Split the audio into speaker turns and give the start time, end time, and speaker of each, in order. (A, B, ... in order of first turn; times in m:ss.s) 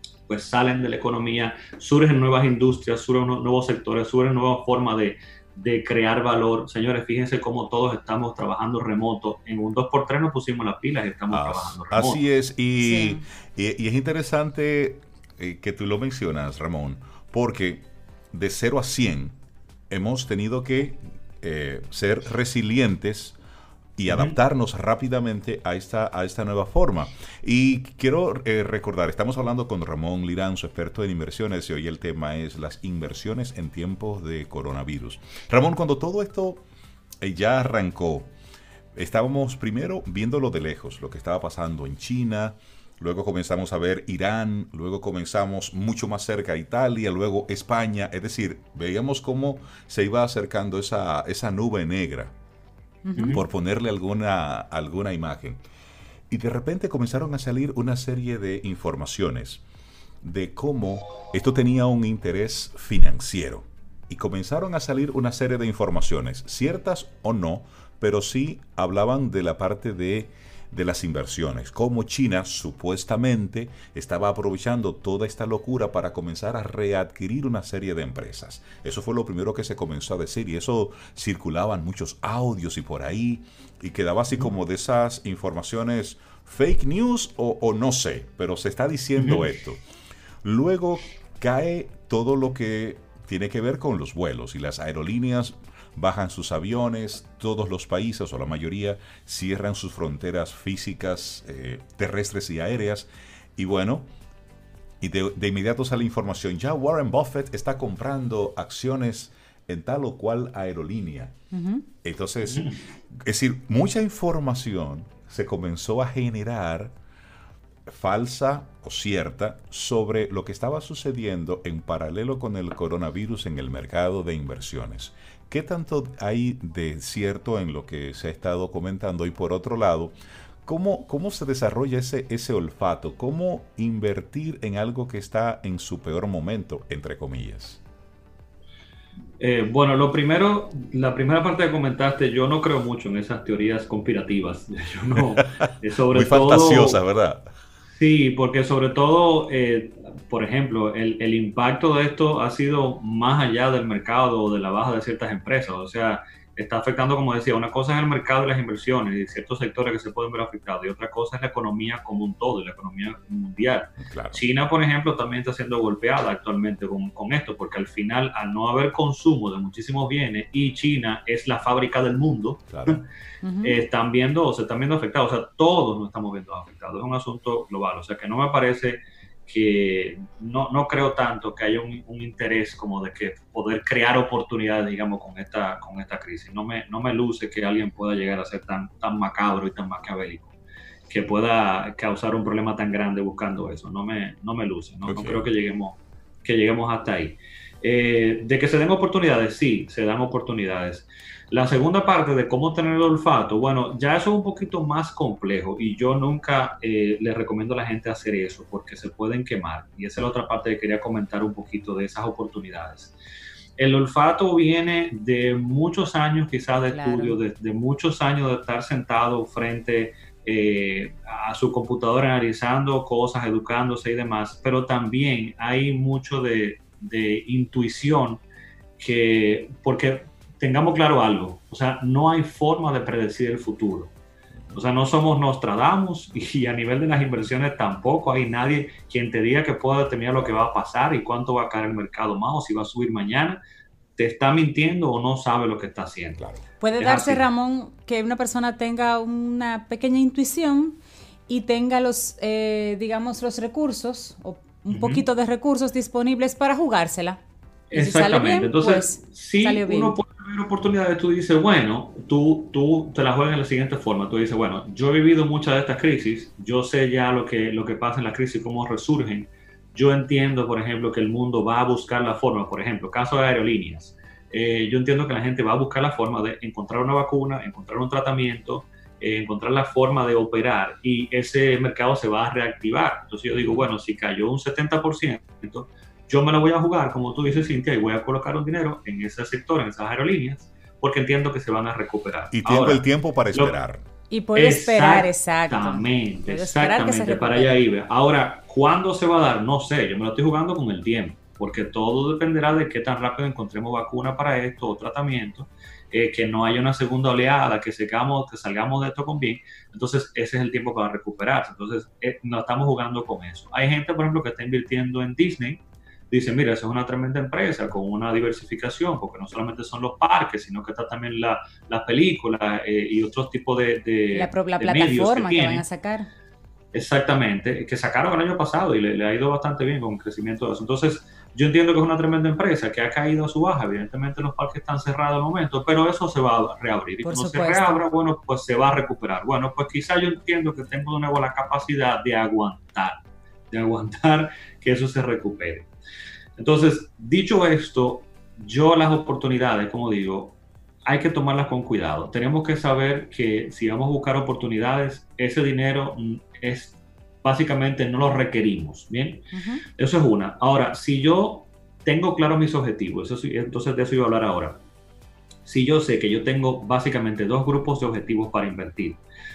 0:00.3-0:12.2 A
0:11.3-0:19.4 B
0:12.8-0:13.2 C
0:19.9-0:23.4 B
0:24.0-0:36.6 B
0:37.2-0:38.3 B
0:38.9-0:52.3 B
0:53.0-0:53.4 C
0:53.2-0:53.4 A
0:53.3-0:55.6 B
0:56.3-0:59.6 B
1:00.2-1:29.8 B
1:29.2-1:29.4 A
1:30.4-1:44.1 B
1:45.0-1:51.4 B
1:51.5-1:51.8 C
1:52.0-1:57.0 B
1:57.9-2:17.8 B
2:19.4-2:27.0 A
2:26.1-2:27.5 B
2:28.0-2:53.0 A
2:44.0-2:44.4 B
2:52.7-2:53.0 B
2:53.4-2:53.8 C
2:53.6-3:10.5 A
3:11.1-3:33.2 A
3:15.0-3:15.5 B
3:33.8-3:48.4 A
3:36.9-3:37.4 C
3:49.0-3:54.1 A
3:54.8-4:03.6 A
4:04.2-4:06.4 A
4:06.8-4:17.4 C
4:07.0-4:07.5 A
4:14.9-4:15.3 A
4:17.9-4:53.8 A
4:17.9-4:20.2 C
4:43.6-4:43.8 B
4:52.5-4:54.1 B
4:54.3-4:57.8 C
4:54.6-5:25.8 A
5:24.3-5:26.3 C
5:26.9-5:45.9 A
5:37.2-5:38.0 C
5:46.6-6:04.8 A
5:59.5-5:59.8 C
6:05.7-6:09.2 A